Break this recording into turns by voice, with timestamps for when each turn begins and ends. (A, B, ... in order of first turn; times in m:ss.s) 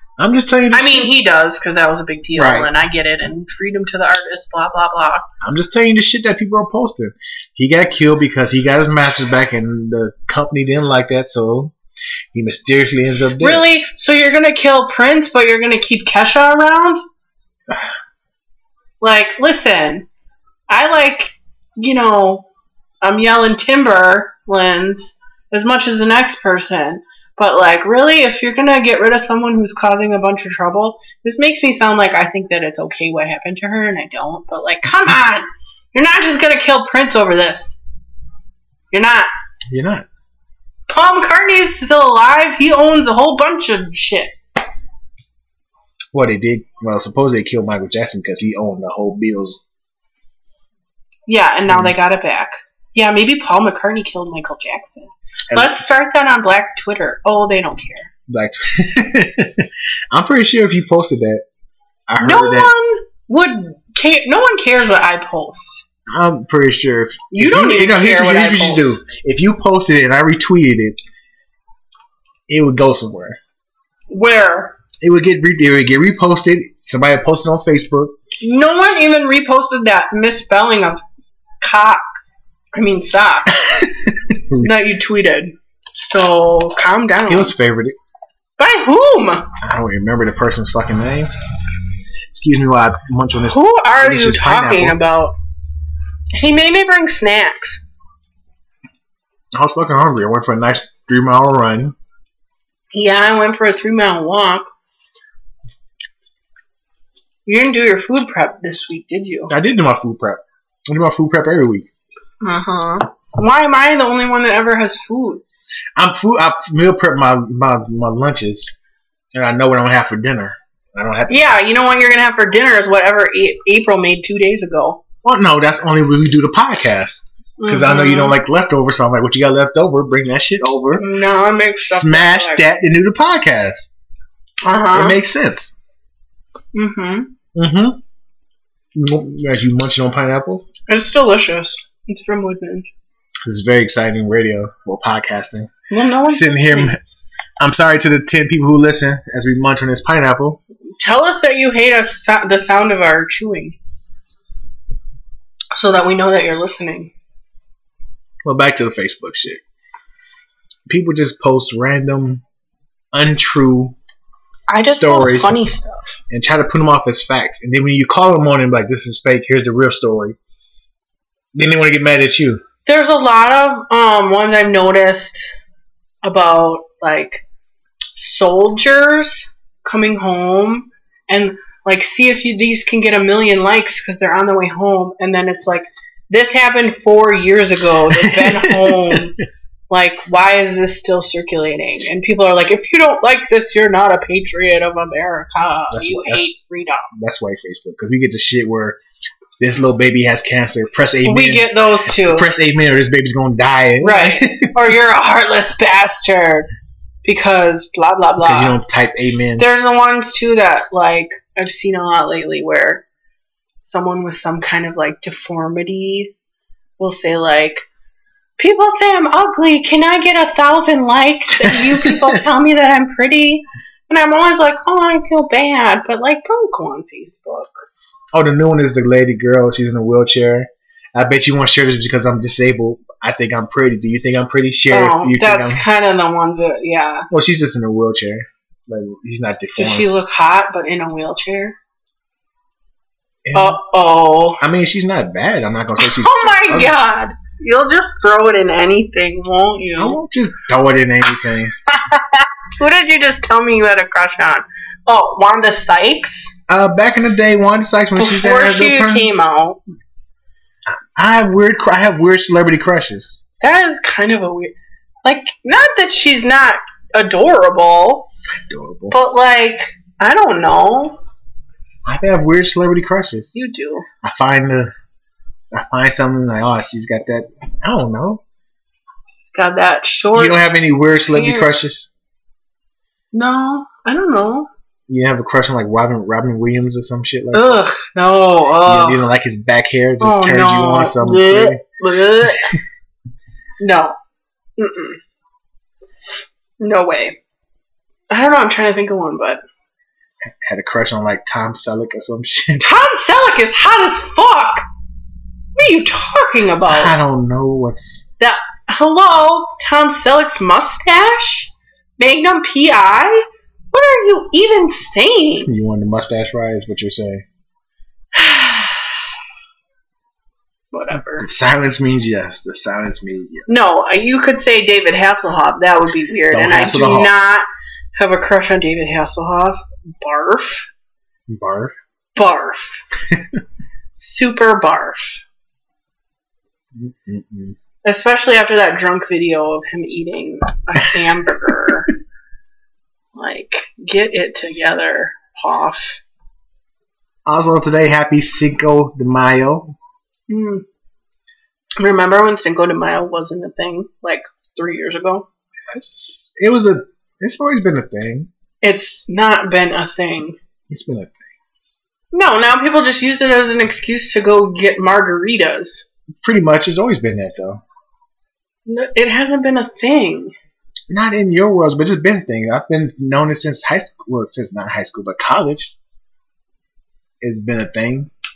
0:00.2-0:01.1 A
0:00.7-0:05.3 B
0:02.3-0:02.7 A
0:05.4-0:11.7 A
0:12.3-0:13.6 A
0:13.4-0:17.0 B
0:19.0-0:20.1 B
0:20.7-0:22.5 B
0:23.0-0:37.8 B
0:38.9-0:39.3 B
0:39.7-0:40.1 A
0:40.9-0:44.4 B
0:46.1-0:49.6 A
0:51.3-0:58.1 B
0:51.7-0:51.9 A
0:55.5-0:55.8 A
0:58.3-1:01.4 A
1:02.1-1:02.7 A
1:02.2-1:05.8 B
1:06.1-1:11.0 A
1:07.3-1:09.0 B
1:12.5-1:13.4 A
1:14.1-1:14.8 B
1:15.0-1:18.2 A
1:18.4-1:21.0 B
1:21.6-1:22.0 B
1:22.7-1:23.5 B
1:23.5-1:24.7 A
1:24.6-1:27.5 B
1:27.3-1:27.9 A
1:28.6-1:29.5 B
1:29.6-1:31.3 A
1:32.3-1:35.0 A
1:33.4-1:35.4 B
1:36.3-1:37.8 B
1:39.5-1:41.9 A
1:42.9-1:44.6 B
1:47.4-1:49.5 B
1:49.5-1:51.9 A
1:52.4-1:55.4 B
1:56.0-1:58.7 A
1:59.3-2:01.6 A
2:01.3-2:05.0 B
2:05.2-2:11.0 A
2:07.6-2:08.4 B
2:11.0-2:12.6 B
2:11.9-2:13.9 A
2:14.6-2:15.2 B
2:14.9-2:15.7 A
2:16.7-2:17.3 B
2:17.5-2:18.0 A
2:18.9-2:20.6 A
2:20.9-2:22.9 B
2:23.4-2:25.7 A
2:25.9-2:26.9 B
2:26.3-2:27.0 A
2:27.6-2:30.6 A
2:31.0-2:33.8 B
2:35.7-2:37.1 B
2:38.4-2:39.6 A
2:40.9-2:42.4 A
2:43.1-2:44.0 A
2:44.7-2:46.2 B
2:44.9-2:45.7 A
2:46.3-2:50.4 A
2:51.5-2:52.6 A
2:52.8-2:55.5 B
2:56.2-2:57.4 B
2:58.1-3:09.3 B
3:08.1-3:09.3 A
3:09.9-3:17.1 B
3:15.9-3:16.5 A
3:17.1-3:19.0 A
3:19.6-3:24.8 A
3:21.2-3:22.5 B
3:24.0-3:26.7 B
3:27.2-3:28.8 B
3:28.4-3:29.7 A
3:29.6-3:33.0 B
3:33.8-3:36.3 B
3:37.0-3:37.8 B
3:38.6-3:47.8 B
3:41.6-3:42.3 A
3:48.3-3:55.8 A
3:54.9-3:57.3 B
3:57.3-4:00.2 A
3:59.8-4:01.8 B
4:03.4-4:03.8 A
4:03.5-4:04.6 B
4:04.6-4:06.9 A
4:06.0-4:10.2 B
4:10.0-4:11.7 A
4:12.0-4:16.5 B
4:16.7-4:19.3 A
4:18.2-4:19.8 B
4:20.9-4:23.4 A
4:23.6-4:24.7 B
4:25.2-4:28.3 B
4:28.7-4:29.2 A
4:29.1-4:31.2 B
4:32.0-4:33.6 A
4:33.5-4:34.1 B
4:34.2-4:34.9 A
4:35.7-4:38.4 A
4:39.5-4:40.6 B
4:40.3-4:42.1 A
4:41.3-4:41.7 B
4:43.3-4:44.7 B
4:45.1-4:47.8 A
4:47.5-4:49.3 B
4:48.8-4:51.8 A
4:50.2-4:52.7 B
4:53.8-4:54.1 B
4:54.8-4:55.2 B
4:56.8-4:57.4 B
4:58.3-4:59.6 B
5:00.6-5:02.9 A
5:02.8-5:04.8 B
5:05.8-5:07.1 B
5:06.8-5:08.2 A
5:08.4-5:15.7 B
5:15.6-5:17.4 A
5:18.3-5:19.1 B
5:20.9-5:21.5 B
5:21.1-5:23.7 A
5:23.7-5:30.9 B
5:26.5-5:27.3 A
5:31.5-5:31.9 A
5:32.3-5:32.9 B
5:33.3-5:33.5 A
5:34.2-5:35.4 B
5:36.9-5:37.8 A
5:38.0-5:42.1 B
5:43.3-5:46.2 B
5:47.4-5:49.9 A
5:50.5-5:50.8 B
5:52.0-5:55.5 B
5:55.9-5:58.5 A
5:58.8-6:00.6 B
6:00.9-6:01.5 A
6:02.3-6:06.0 B
6:06.4-6:07.8 A
6:08.8-6:10.5 B
6:11.1-6:15.9 A
6:17.4-6:18.3 A